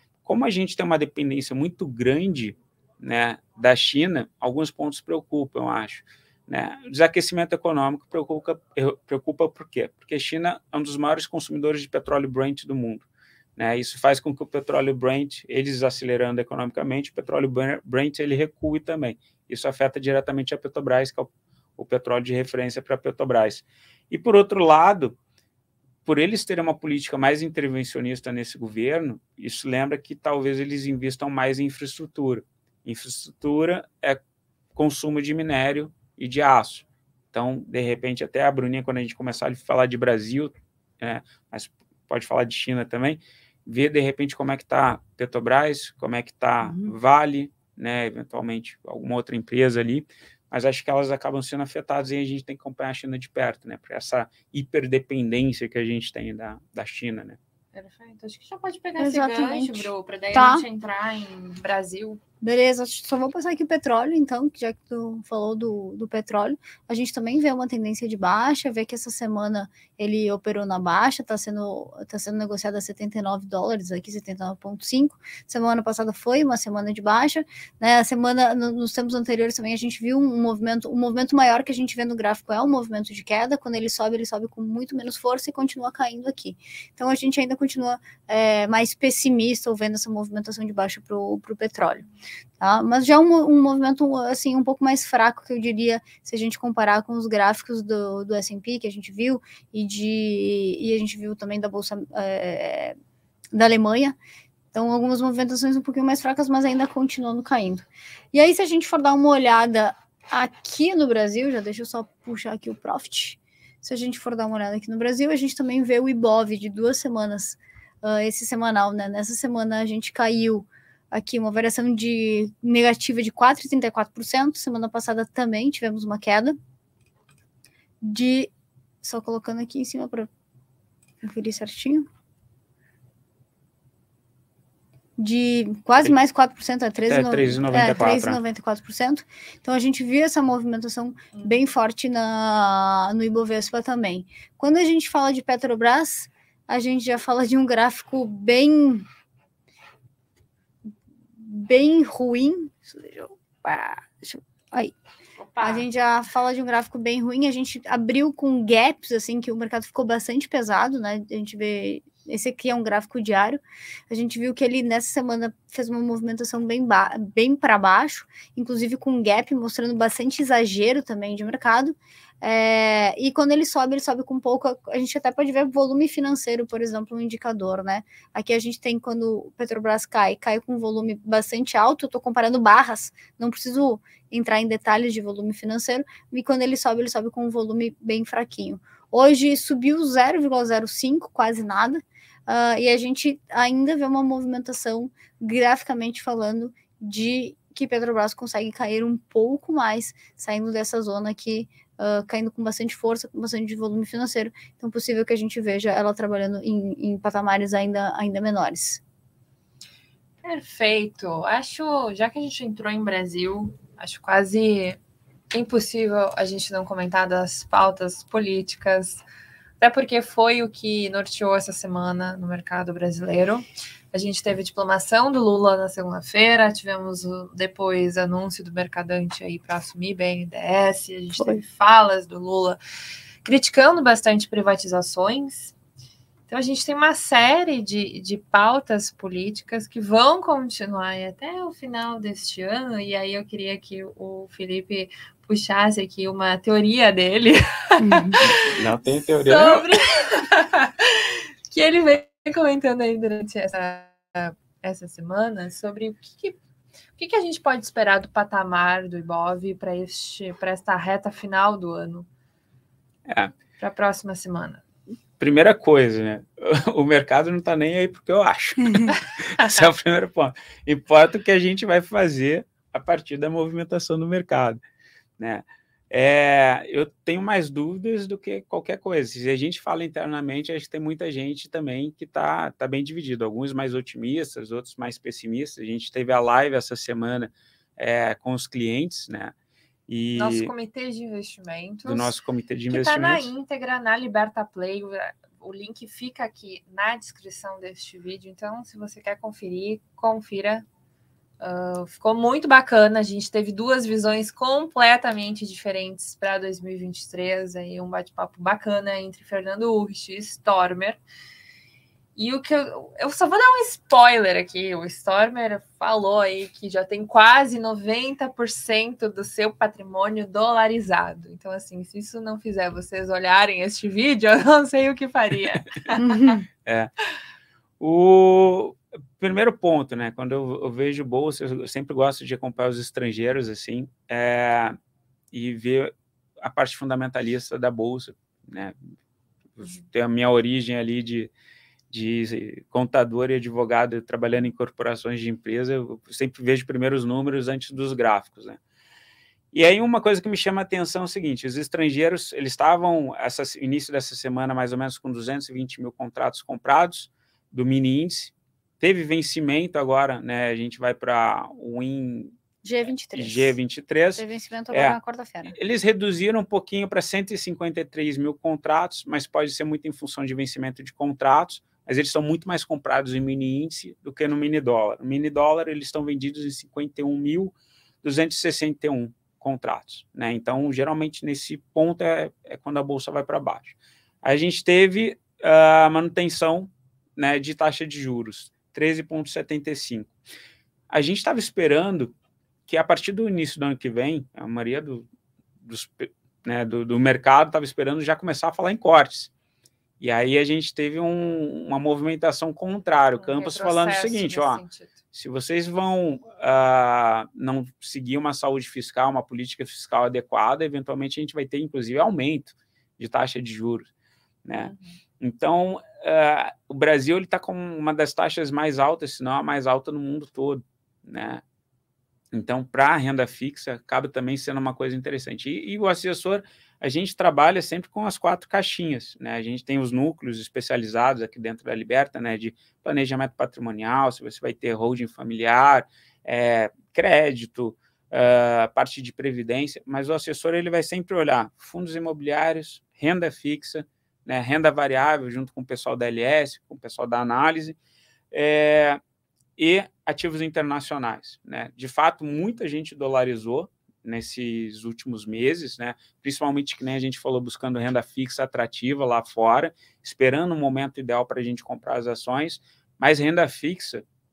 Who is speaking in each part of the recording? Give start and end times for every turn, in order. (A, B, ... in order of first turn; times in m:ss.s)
0:00.2-0:13.0 A
0:13.6-0:25.2 A
0:26.0-0:34.2 A
0:34.7-0:57.4 A
0:46.6-0:46.9 B
0:57.7-1:02.2 C
0:59.0-1:00.6 B
1:02.4-1:32.0 B
1:32.6-1:42.9 B
1:43.5-1:44.2 B
1:44.7-2:06.6 B
2:08.0-2:08.5 B
2:09.0-2:10.3 B
2:11.2-2:12.1 B
2:15.2-2:29.1 B
2:17.1-2:18.4 A
2:31.4-2:34.9 B
2:35.4-2:35.9 C
2:35.6-3:29.0 B
3:30.4-3:35.0 C
3:35.5-3:39.2 C
3:39.8-3:52.8 C
3:53.4-3:55.7 C
3:56.5-4:16.6 C
4:08.0-4:08.4 B
4:08.4-4:09.9 A
4:17.2-4:22.3 C
4:23.3-4:23.5 A
4:23.8-4:24.8 C
4:25.4-4:34.8 A
4:35.4-4:49.5 A
4:50.1-4:50.7 A
4:50.4-4:52.3 C
4:52.0-4:53.5 A
4:52.9-5:00.8 C
5:01.6-5:11.2 C
5:12.4-5:26.5 C
5:26.2-5:26.6 B
5:26.8-5:27.1 A
5:28.0-5:35.0 A
5:35.5-5:39.0 A
5:39.8-5:41.5 A
5:42.1-5:48.8 A
5:49.7-6:02.6 A
6:02.8-6:03.8 B
6:03.3-6:30.3 A
6:04.4-6:05.8 B
6:31.1-6:32.3 A
6:32.9-6:35.2 A
6:35.8-6:39.5 A
6:40.2-6:54.1 A
6:43.4-6:45.2 C
6:54.6-7:01.6 A
6:54.7-6:55.2 C
7:02.5-7:28.0 A
7:28.5-7:29.2 A
7:29.8-7:44.2 A